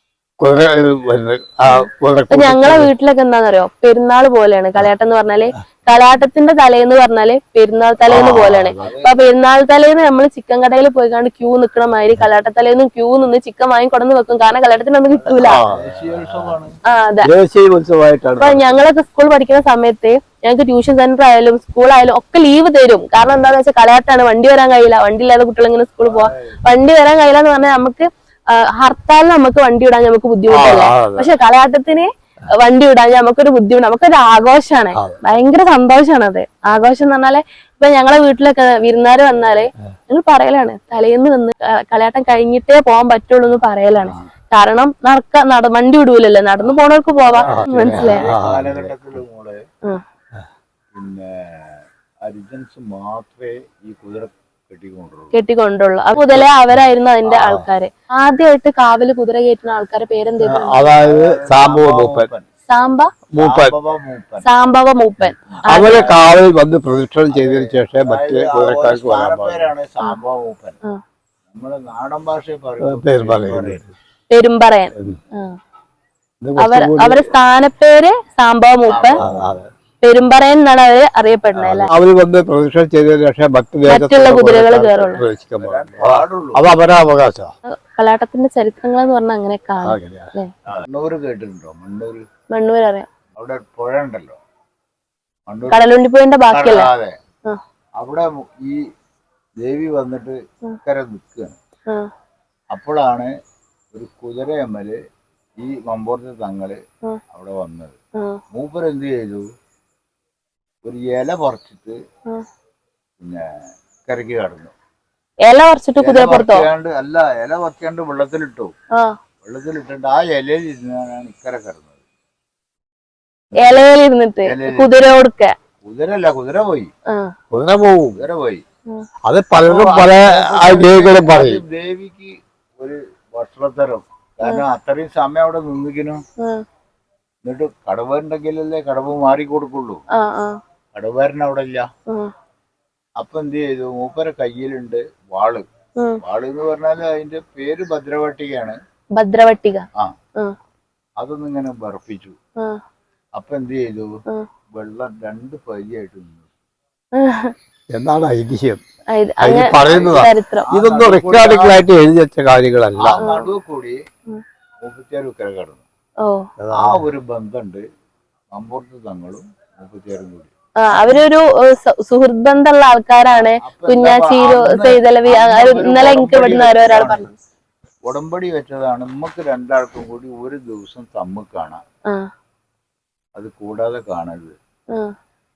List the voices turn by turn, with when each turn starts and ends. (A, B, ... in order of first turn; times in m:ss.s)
0:00.4-0:02.9 A
0:02.3-0:15.6 B
0:08.1-0:08.9 A
0:08.8-0:09.1 C
0:15.3-0:16.5 A
0:15.5-0:16.8 C
0:16.8-0:17.3 B
0:17.2-0:18.8 A
0:18.4-0:48.2 B
0:26.1-0:26.6 C
0:30.5-0:31.3 A
0:47.3-0:49.6 C
0:47.4-0:48.9 A
0:50.9-0:55.3 C
0:55.3-1:00.8 B
0:57.3-0:57.6 A
1:00.4-1:02.3 A
1:00.7-1:02.4 C
1:02.7-1:03.1 B
1:03.3-1:03.7 A
1:03.4-1:04.4 C
1:04.4-1:06.2 B
1:05.5-1:06.2 C
1:05.6-1:09.7 A
1:07.3-1:10.8 C
1:11.5-1:13.8 C
1:12.8-1:13.9 A
1:14.3-1:15.5 B
1:16.4-1:17.3 A
1:16.6-1:19.2 B
1:18.9-1:19.6 C
1:19.2-1:19.7 A
1:20.0-1:21.9 B
1:21.7-1:27.5 A
1:23.9-1:25.2 B
1:25.6-1:26.8 C
1:27.8-1:30.5 B
1:29.8-1:30.3 A
1:30.7-1:32.2 C
1:32.5-1:33.1 B
1:33.4-1:34.4 C
1:35.5-1:35.9 C
1:35.7-1:36.9 B
1:36.5-1:37.1 C
1:38.0-1:38.8 C
1:39.6-1:41.6 C
1:42.7-1:43.3 C
1:43.9-1:44.9 C
1:45.6-1:46.8 C
1:47.3-1:48.0 C
1:48.5-1:49.4 C
1:50.8-1:52.0 C
1:54.0-1:54.7 C
1:55.4-1:56.7 B
1:56.0-1:58.7 C
1:59.4-2:02.0 C
2:03.5-2:03.8 C
2:03.6-2:05.5 B
2:04.5-2:04.9 C
2:05.8-2:06.9 C
2:07.5-2:08.2 A
2:08.2-2:08.6 C
2:09.2-2:11.6 A
2:09.6-2:16.2 C
2:17.4-2:20.0 C
2:20.1-2:20.6 B
2:20.9-2:21.9 C
2:23.2-2:25.6 C
2:26.2-2:28.8 C
2:29.2-2:29.8 B
2:31.2-2:32.3 C
2:33.4-2:34.1 C
2:34.7-2:36.5 C
2:37.2-2:37.5 B
2:37.9-2:38.8 A
2:39.1-2:40.7 B
2:39.4-2:43.2 A
2:39.6-2:41.8 C
2:43.0-2:44.0 C
2:43.2-2:43.5 B
2:44.8-2:45.8 C
2:46.6-2:47.0 A
2:46.7-2:47.8 C
2:48.5-2:50.5 C
2:50.8-2:57.3 B
2:53.6-2:57.3 C
2:58.0-3:01.8 C
3:03.3-3:04.5 C